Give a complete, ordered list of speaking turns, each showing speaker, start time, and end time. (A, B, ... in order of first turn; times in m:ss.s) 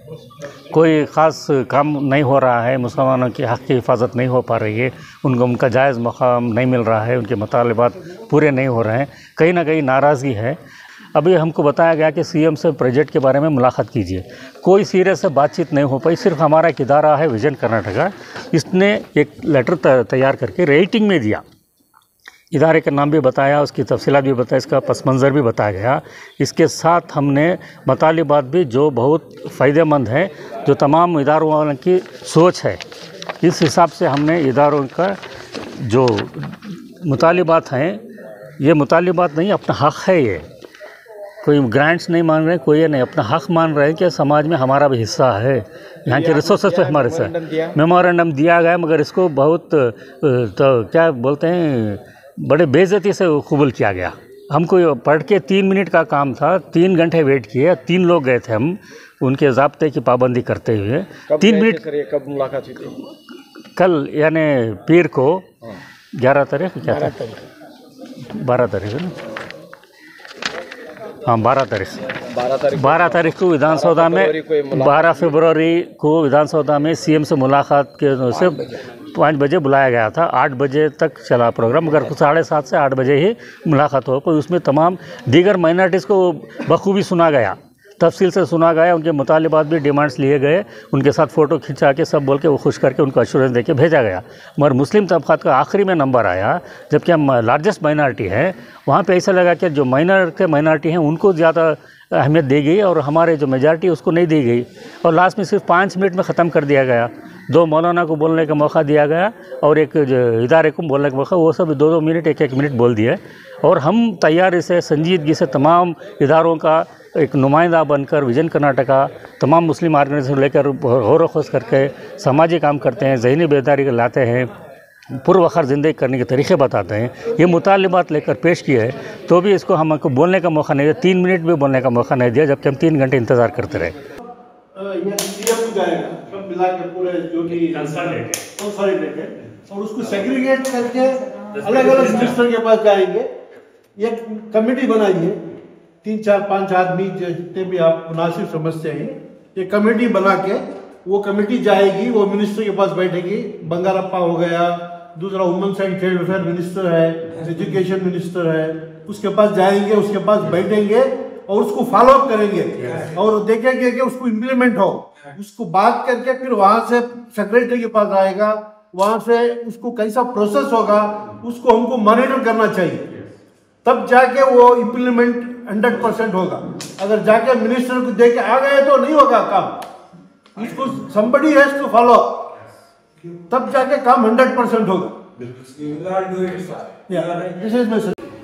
0:00.7-0:10.6 A
0:11.2-0:21.4 A
0:22.5-0:32.8 A
0:33.4-0:38.0 A
0:38.6-0:40.5 A
0:41.4-1:01.8 A
0:46.1-0:47.8 B
1:01.3-1:03.0 B
1:03.8-1:05.5 A
1:06.2-1:07.3 A
1:08.3-1:09.2 A
1:11.2-1:12.0 A
1:12.6-1:15.3 B
1:12.7-2:04.5 A
2:05.1-2:14.0 A
2:14.8-2:23.3 C
2:17.5-2:18.4 A
2:21.6-2:22.4 A
2:24.0-2:25.4 C
2:26.0-2:53.1 C
2:53.8-2:59.8 C
3:00.6-3:02.5 C
3:03.5-3:05.2 C
3:06.5-3:08.2 C